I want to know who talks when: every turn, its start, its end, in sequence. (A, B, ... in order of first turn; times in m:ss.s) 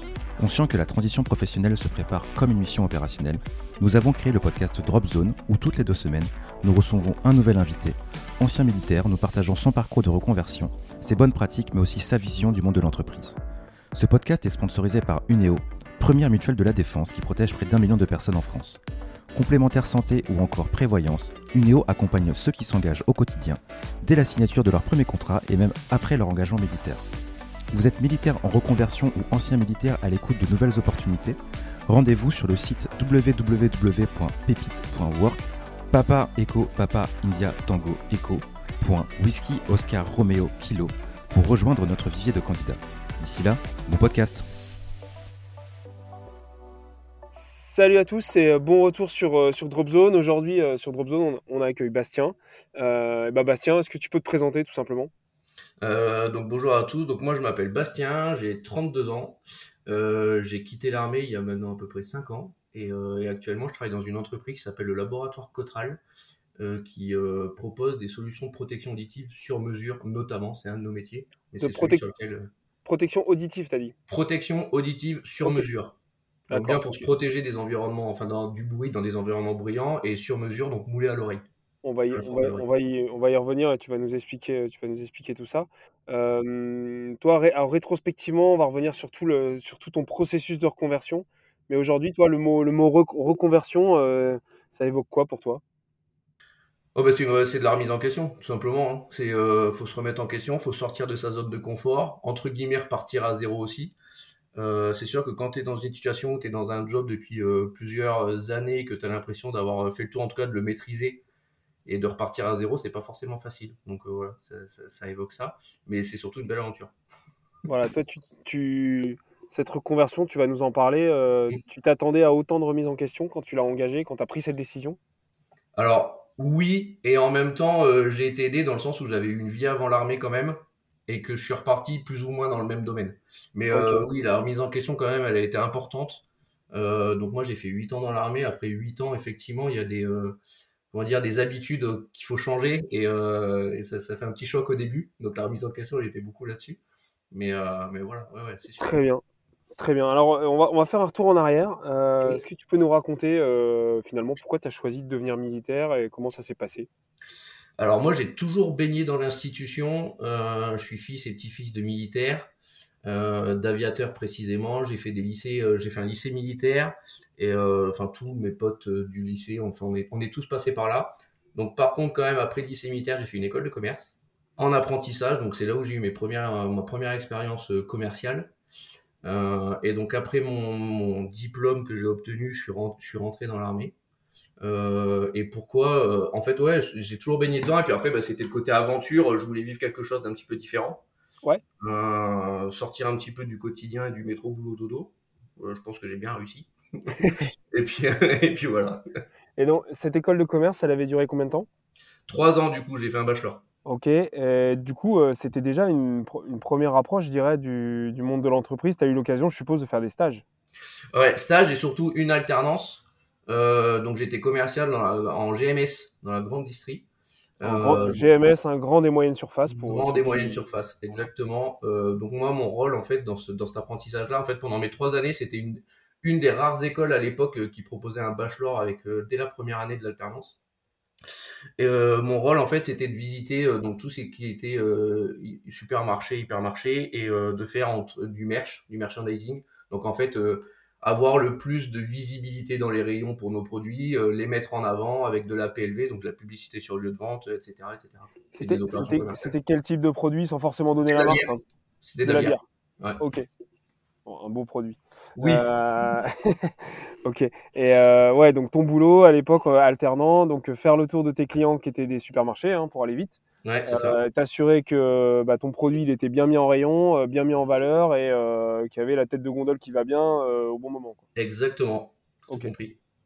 0:00.4-0:13.4 A
0:13.9-0:18.8 A
0:19.3-0:27.0 A
0:27.7-0:31.4 A
0:31.9-0:44.5 A
0:47.3-0:55.1 B
0:55.8-1:06.0 C
1:06.6-1:12.5 C
1:11.6-1:12.1 B
1:12.8-1:13.9 B
1:14.1-1:16.0 C
1:16.5-1:21.4 C
1:16.5-1:17.1 B
1:21.8-1:35.6 B
1:22.1-1:22.6 C
1:36.9-1:44.0 C
1:44.5-1:51.2 C
1:51.8-1:56.9 C
1:57.6-2:05.0 B
2:05.7-2:20.4 C
2:13.7-2:14.0 B
2:20.9-2:26.8 C
2:27.3-2:28.9 C
2:28.8-2:29.2 B
2:29.8-2:36.9 B
2:37.8-2:42.5 C
2:43.0-2:58.5 C
2:59.2-3:03.9 C
3:04.6-3:11.0 C
3:11.8-3:16.7 C
3:17.2-3:17.5 B
3:17.7-3:19.0 C
3:19.6-3:21.7 B
3:22.3-3:23.6 C
3:23.8-3:30.4 B
3:31.1-3:37.0 C
3:37.6-3:38.3 C
3:37.6-3:40.6 B
3:39.7-3:50.6 C
3:51.8-4:09.5 C
4:08.5-4:11.6 B
4:11.0-4:13.2 C
4:12.2-4:12.6 B
4:13.2-4:13.5 B
4:14.2-4:31.2 B
4:15.4-4:15.6 C
4:23.6-4:24.2 C
4:31.4-4:33.0 C